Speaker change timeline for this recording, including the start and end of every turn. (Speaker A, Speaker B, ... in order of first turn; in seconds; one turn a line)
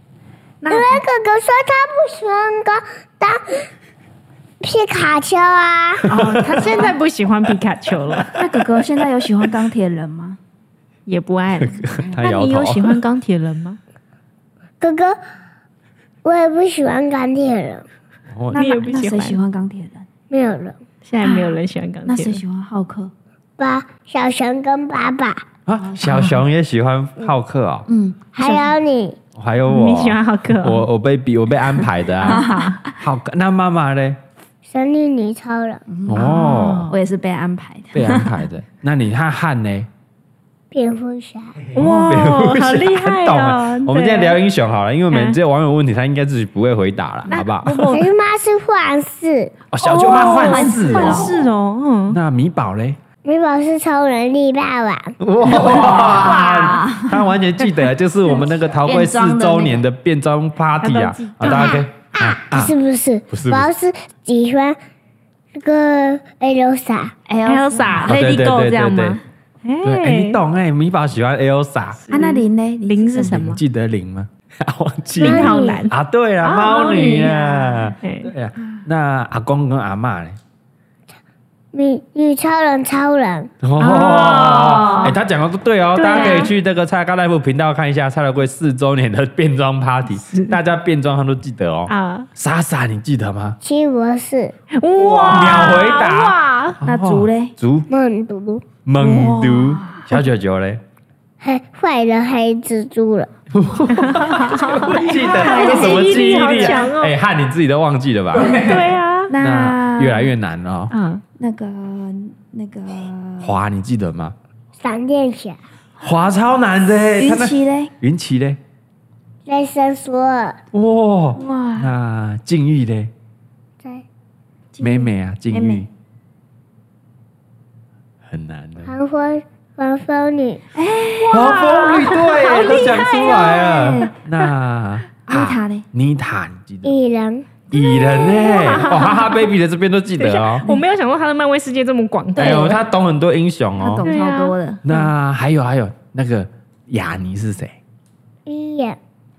Speaker A: 0.6-1.0
Speaker B: 0.7-3.7
Speaker B: 4.6-6.1
Speaker C: 6.1-6.4
Speaker A: 6.1-8.4
Speaker D: 6.1-7.0
Speaker D: 8.3-10.4
Speaker A: 11.1-13.8
Speaker C: 11.6-13.0
Speaker B: 14.8-15.2
Speaker B: 16.2-17.9
Speaker C: 18.3-18.6
Speaker D: 18.5-20.1
Speaker A: 18.5-19.4
Speaker B: 20.3-20.8
Speaker A: 21.0-22.4
Speaker D: 21.2-23.1
Speaker B: 23.6-25.4
Speaker C: 25.6-27.9
Speaker D: 25.8-26.3
Speaker A: 26.1-26.4
Speaker D: 27.9-28.5
Speaker B: 28.3-29.2
Speaker C: 29.3-34.2
Speaker A: 29.7-30.9
Speaker A: 32.2-32.8
Speaker D: 32.2-32.9
Speaker B: 34.6-35.8
Speaker D: 35.9-38.4
Speaker C: 36.0-36.9
Speaker A: 36.1-37.0
Speaker C: 37.9-39.9
Speaker B: 40.7-41.6
Speaker C: 41.6-47.8
Speaker A: 41.7-44.4
Speaker A: 45.1-45.4
Speaker A: 47.3-48.1
Speaker D: 47.3-48.0
Speaker B: 47.9-49.5
Speaker C: 49.7-51.3
Speaker D: 49.9-51.4
Speaker A: 49.9-52.2
Speaker C: 52.1-53.0
Speaker B: 53.2-55.2
Speaker C: 55.2-62.7
Speaker D: 55.5-57.3
Speaker D: 58.3-59.9
Speaker A: 60.8-61.8
Speaker B: 61.4-64.8
Speaker C: 63.3-63.7
Speaker B: 65.5-67.1
Speaker D: 67.3-68.3
Speaker A: 67.4-70.4
Speaker C: 68.0-69.2
Speaker C: 69.8-72.0
Speaker A: 72.1-73.6
Speaker D: 72.1-73.4
Speaker C: 73.3-80.4
Speaker B: 75.2-75.8
Speaker A: 75.2-75.9
Speaker D: 76.5-77.9
Speaker A: 76.5-77.5
Speaker A: 78.0-78.3
Speaker B: 81.7-83.5
Speaker C: 83.6-93.6
Speaker A: 83.8-85.1
Speaker A: 86.0-86.5
Speaker A: 90.2-90.5
Speaker A: 91.9-92.3
Speaker B: 93.6-94.5
Speaker A: 94.7-96.8
Speaker C: 94.9-97.9
Speaker D: 96.8-97.5
Speaker B: 97.9-98.7
Speaker C: 98.8-100.8
Speaker D: 99.0-100.0
Speaker B: 101.4-103.3
Speaker C: 103.5-110.9
Speaker A: 103.9-107.1
Speaker D: 104.9-106.9
Speaker D: 108.4-108.7
Speaker A: 108.5-109.3
Speaker D: 109.3-110.3
Speaker A: 110.9-111.2
Speaker D: 111.3-113.6
Speaker C: 113.4-114.3
Speaker B: 114.8-115.6
Speaker C: 116.0-118.6
Speaker D: 117.1-117.9
Speaker B: 119.5-120.6
Speaker C: 120.7-123.1
Speaker D: 121.4-121.9
Speaker D: 124.7-125.8
Speaker C: 124.8-125.9
Speaker C: 128.2-128.9
Speaker B: 128.8-130.6
Speaker D: 130.7-134.1
Speaker C: 131.3-136.9
Speaker D: 135.3-135.8
Speaker B: 136.8-137.6
Speaker C: 137.7-140.7
Speaker A: 137.8-139.5
Speaker A: 140.2-142.8
Speaker C: 142.3-144.1
Speaker D: 142.4-142.7
Speaker D: 143.8-144.8
Speaker A: 144.0-144.5
Speaker C: 144.8-147.8
Speaker B: 148.4-149.0